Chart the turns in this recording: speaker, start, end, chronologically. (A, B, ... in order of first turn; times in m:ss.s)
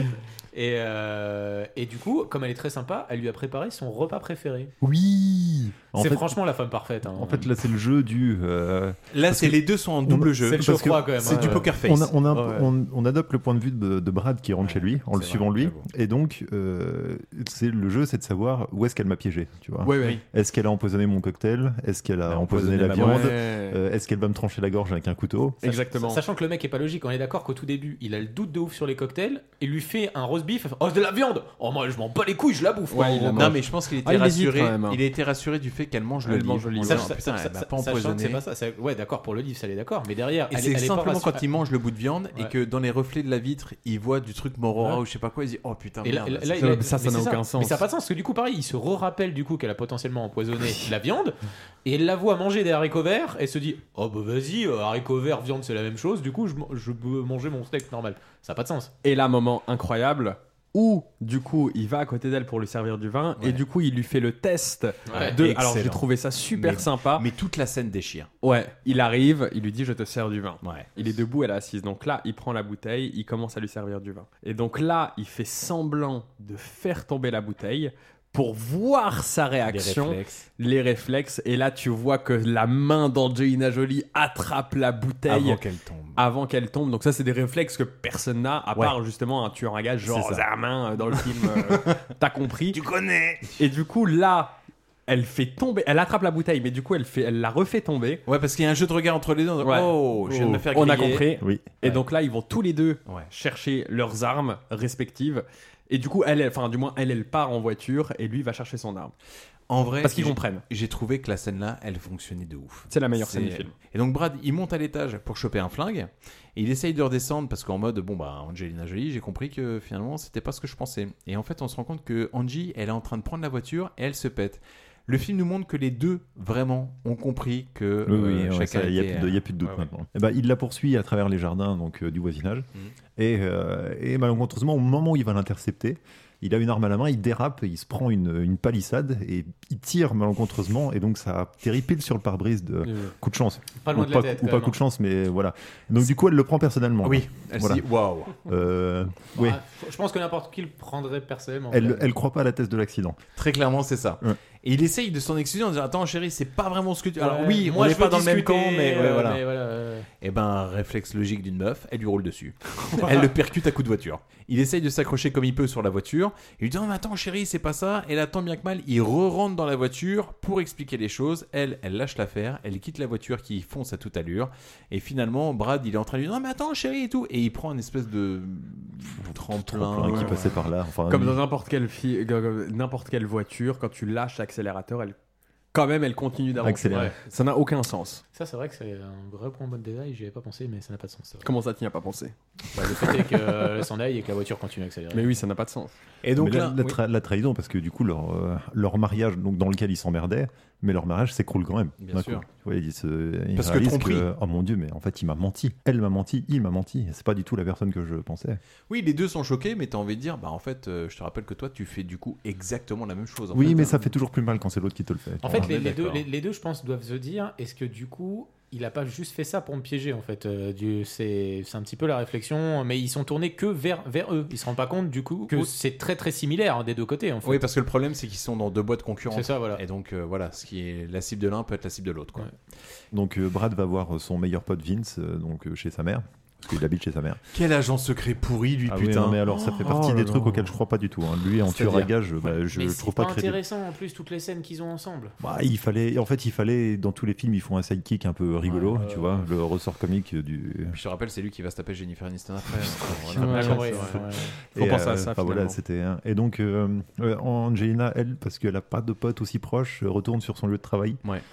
0:00.5-0:04.7 A
0:04.8-0:06.4 B
0:06.0-0:07.5 A
0:07.1-0:25.8 B
0:09.1-0:12.1 C
0:10.4-0:11.7 A
0:11.3-0:11.6 D
0:12.3-0:12.7 D
0:14.6-0:15.9 C
0:19.8-0:20.2 D
0:22.3-0:23.3 C
0:22.4-0:23.8 D
0:25.6-0:26.2 D
0:25.9-0:33.6 A
0:32.9-0:35.0 D
0:33.4-0:38.4 C
0:36.2-0:37.1 D
0:36.8-0:41.4 A
0:40.5-0:46.6 C
0:46.0-0:58.9 A
0:46.6-0:47.8 D
0:59.0-1:07.3 D
1:05.1-1:05.4 A
1:05.1-1:08.3 C
1:08.4-1:25.6 D
1:10.6-1:10.9 C
1:19.7-1:20.5 C
1:25.3-1:26.2 C
1:26.2-1:32.8 D
1:30.1-1:30.5 C
1:32.7-1:33.5 C
1:33.6-1:38.2 D
1:38.3-1:41.3 C
1:39.6-1:49.1 D
1:41.4-1:41.8 B
1:49.7-2:09.4 C
1:50.0-1:50.6 D
1:52.9-1:53.7 D
2:08.1-2:27.9 B
2:22.8-2:23.1 D
2:23.8-2:24.8 A
2:27.0-2:28.4 C
2:28.4-2:29.6 B
2:29.4-2:32.1 A
2:31.7-2:33.2 B
2:33.4-2:39.4 C
2:37.2-2:40.1 A
2:40.2-3:00.5 C
2:59.4-3:01.4 B
3:00.0-3:00.5 D
3:01.1-3:05.2 D
3:05.7-3:08.2 D
3:06.6-3:07.1 B
3:08.3-3:11.5 A
3:11.4-3:13.9 D
3:12.8-3:15.4 A
3:15.1-3:15.9 D
3:16.2-3:17.0 C
3:16.4-3:28.6 B
3:22.0-3:22.4 C
3:23.6-3:24.3 C
3:28.9-3:34.0 C
3:33.5-3:36.2 B
3:35.4-3:47.6 A
3:47.4-3:52.5 C
3:49.3-3:49.8 A
3:53.1-3:57.4 B
3:57.5-3:59.4 C
3:58.9-4:03.6 B
3:59.5-4:00.7 D
4:02.7-4:05.4 A
4:05.4-4:11.0 B
4:08.7-4:09.5 A
4:10.9-4:14.0 C
4:13.3-4:14.2 D
4:13.4-4:14.5 A
4:14.8-4:21.2 B
4:14.8-4:15.8 D